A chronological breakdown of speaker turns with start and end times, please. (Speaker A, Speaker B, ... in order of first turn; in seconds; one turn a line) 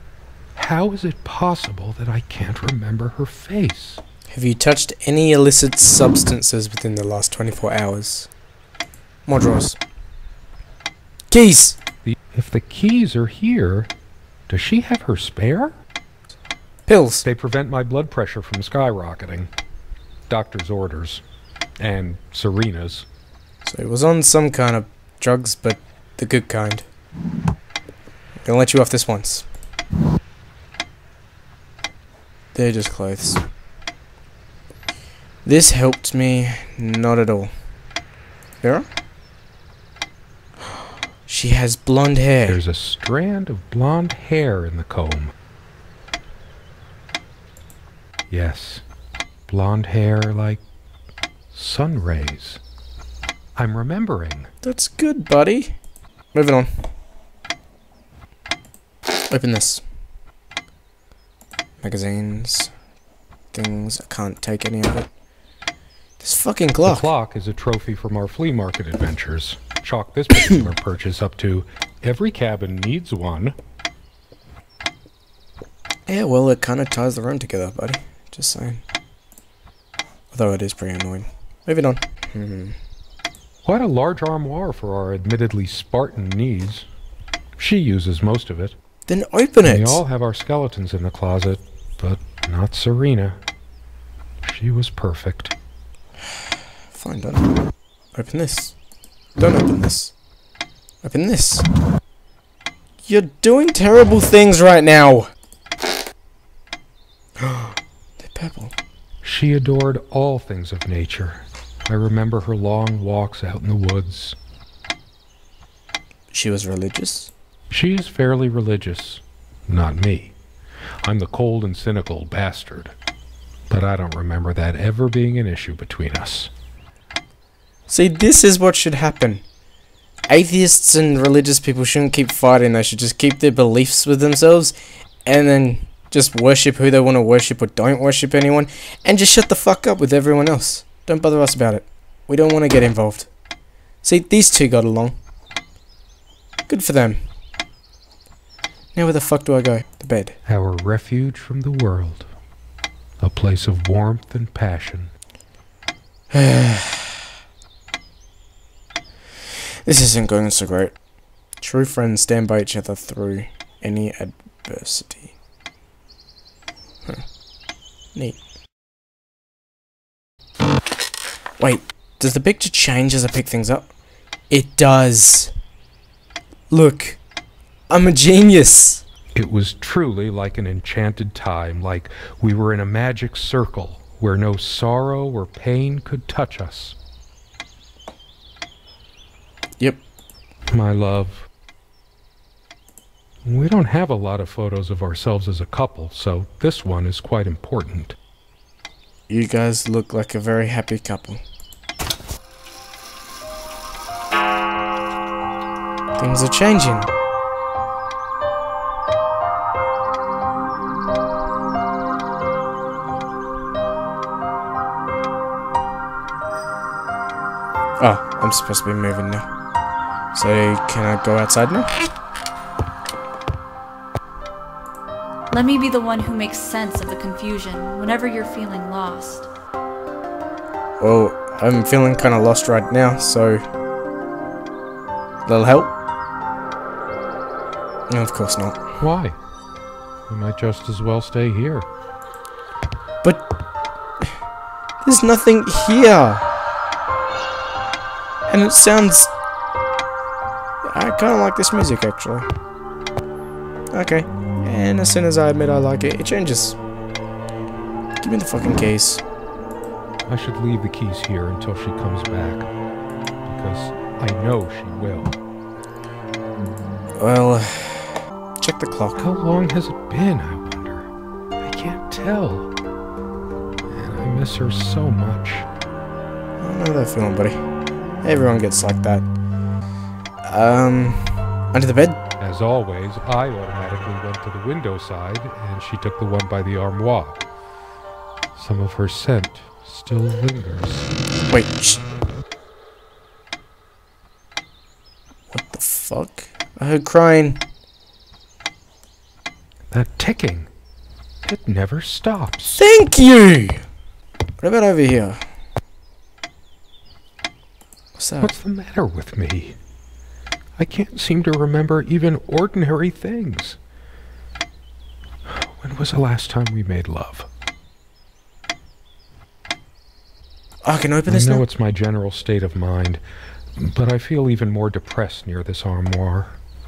Speaker A: 0.6-4.0
Speaker B: 4.3-8.3
Speaker B: 9.3-9.8
Speaker B: 11.3-11.8
Speaker A: 12.1-13.9
Speaker A: 14.5-15.7
Speaker B: 16.9-17.2
Speaker A: 17.2-19.5
Speaker A: 20.3-21.2
Speaker A: 21.8-23.1
Speaker B: 23.6-26.9
Speaker B: 28.4-29.5
Speaker B: 32.5-33.4
Speaker B: 35.5-37.5
Speaker B: 38.6-38.9
Speaker B: 41.3-42.6
Speaker A: 42.5-45.3
Speaker A: 48.3-48.8
Speaker A: 49.5-50.6
Speaker A: 51.5-52.6
Speaker A: 53.6-54.5
Speaker B: 54.6-55.8
Speaker B: 56.3-56.9
Speaker B: 59.3-59.8
Speaker B: 61.8-62.7
Speaker B: 63.5-65.1
Speaker B: 66.2-67.1
Speaker A: 66.8-73.6
Speaker B: 76.1-78.8
Speaker B: 80.3-82.8
Speaker A: 83.7-86.9
Speaker A: 87.6-88.8
Speaker B: 89.1-90.0
Speaker A: 89.7-93.4
Speaker A: 94.4-95.5
Speaker B: 96.2-97.6
Speaker B: 98.1-98.7
Speaker B: 99.4-100.1
Speaker B: 101.0-101.7
Speaker B: 103.0-105.3
Speaker B: 107.4-108.7
Speaker A: 109.2-114.4
Speaker B: 116.3-117.3
Speaker A: 117.7-120.3
Speaker A: 121.0-123.0
Speaker A: 123.7-126.5
Speaker B: 127.9-129.4
Speaker B: 130.3-143.3
Speaker B: 144.0-145.2
Speaker B: 146.7-147.2
Speaker B: 148.9-150.3
Speaker A: 150.5-152.3
Speaker A: 153.2-155.1
Speaker B: 156.3-157.3
Speaker B: 159.8-160.9
Speaker B: 161.6-165.3
Speaker B: 171.6-173.9
Speaker B: 174.5-175.5
Speaker B: 176.7-177.2
Speaker B: 177.9-179.0
Speaker A: 179.3-187.0
Speaker A: 190.7-191.5
Speaker A: 193.4-198.2
Speaker B: 199.3-201.4
Speaker B: 206.2-207.1
Speaker B: 218.0-219.5
Speaker B: 220.3-221.9
Speaker C: 225.5-229.5
Speaker B: 231.0-233.6
Speaker B: 235.5-235.9
Speaker B: 238.1-238.8
Speaker A: 239.0-239.4
Speaker A: 240.3-241.9
Speaker B: 245.0-246.5
Speaker B: 248.5-249.3
Speaker B: 250.8-252.5
Speaker B: 253.9-256.8
Speaker B: 258.2-259.2
Speaker A: 260.3-262.7
Speaker A: 263.5-265.4
Speaker B: 267.2-269.3
Speaker A: 269.2-271.1
Speaker A: 271.6-272.7
Speaker A: 273.9-275.7
Speaker B: 276.6-277.6
Speaker B: 278.2-279.3
Speaker B: 280.4-282.2
Speaker A: 282.4-287.4
Speaker A: 288.6-291.1
Speaker B: 291.5-292.0
Speaker B: 295.5-297.6
Speaker A: 299.9-300.7
Speaker A: 301.4-302.8
Speaker B: 302.8-303.8
Speaker B: 304.6-305.4
Speaker B: 308.2-308.5
Speaker A: 308.4-309.8
Speaker A: 310.8-313.8
Speaker A: 315.4-317.5
Speaker B: 320.8-321.6
Speaker A: 321.3-323.2
Speaker A: 323.8-326.6